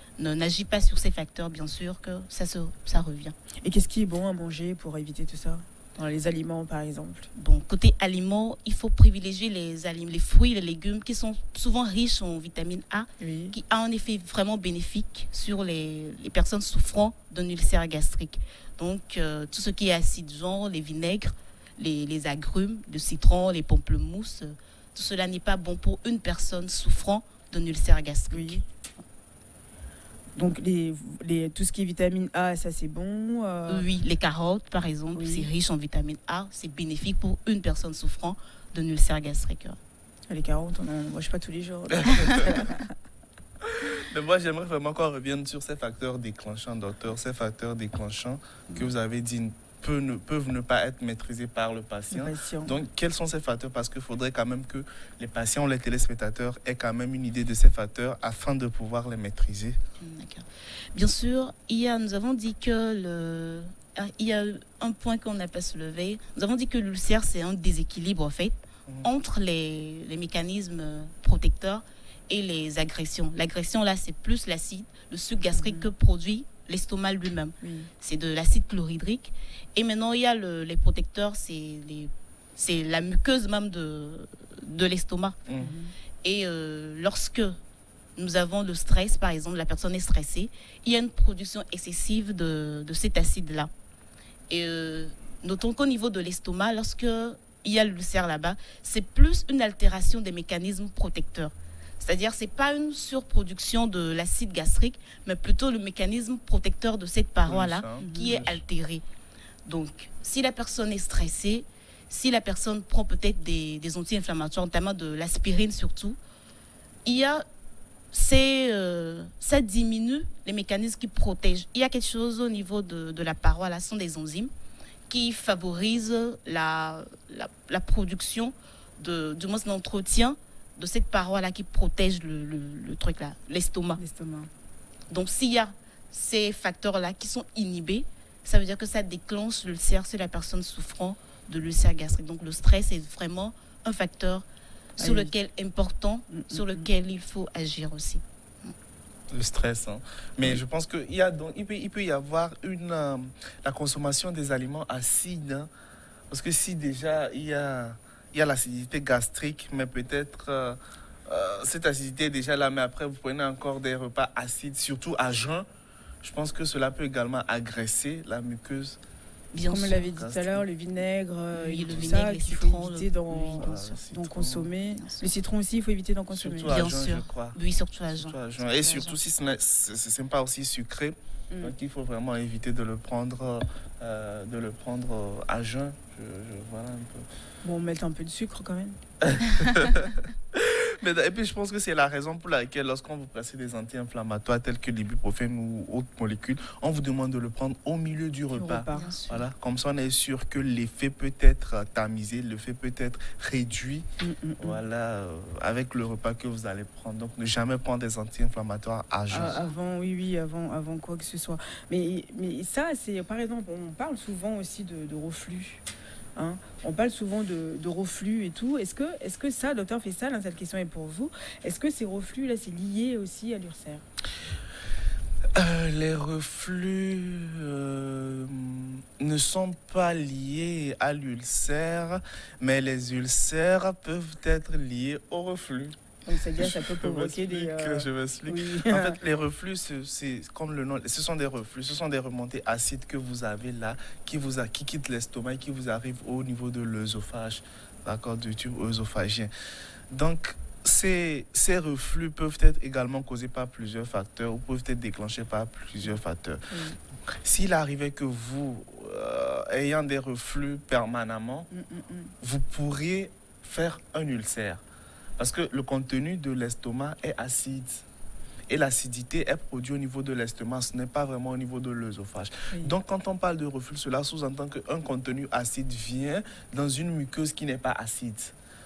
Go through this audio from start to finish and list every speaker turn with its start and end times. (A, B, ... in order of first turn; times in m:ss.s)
0:00.2-0:03.3 A
0:03.6-0:07.3 B
0:07.4-0:28.6 A
0:13.2-0:13.6 B
0:28.3-0:28.6 B
0:30.4-0:33.9 B
0:33.7-0:39.8 A
0:35.1-0:35.5 B
0:40.3-0:42.9 B
0:42.1-0:42.6 C
0:43.6-0:59.8 C
0:52.1-0:52.8 B
1:00.0-1:25.4 A
1:15.5-1:15.9 B
1:17.6-1:17.9 B
1:25.5-1:25.7 C
1:25.6-1:25.9 B
1:26.2-1:27.6 A
1:28.2-1:33.7 A
1:34.5-1:49.0 A
1:47.4-1:48.6 C
1:48.0-1:48.5 B
1:49.6-1:56.2 A
1:57.0-1:57.4 A
1:58.1-2:04.5 A
2:05.1-2:14.0 A
2:14.0-2:14.5 B
2:15.1-2:24.5 A
2:25.0-2:28.7 A
2:25.0-2:25.3 B
2:26.3-2:26.9 B
2:29.3-2:35.7 C
2:36.3-2:45.6 C
2:46.2-2:49.0 C
2:49.5-2:50.2 A
2:49.7-2:53.6 B
2:50.2-2:50.7 C
2:51.5-2:54.0 A
2:51.9-2:52.2 C
2:53.5-2:54.7 C
2:54.1-2:56.7 B
2:54.9-2:55.3 A
2:56.3-2:57.6 C
2:56.6-2:59.3 A
2:58.1-3:07.2 C
3:07.6-3:09.0 B
3:09.2-3:24.1 C
3:18.5-3:19.2 B
3:18.9-3:19.4 A
3:24.2-3:24.8 B
3:24.6-3:29.6 C
3:29.3-3:35.8 B
3:36.4-3:44.0 B
3:45.6-3:56.0 C
3:56.2-3:59.2 B
3:56.6-4:09.5 C
4:10.1-4:16.7 C
4:16.7-4:17.0 B
4:17.4-4:21.7 C
4:21.7-4:22.3 B
4:22.4-4:24.8 C
4:25.4-4:28.0 C
4:28.7-4:38.6 C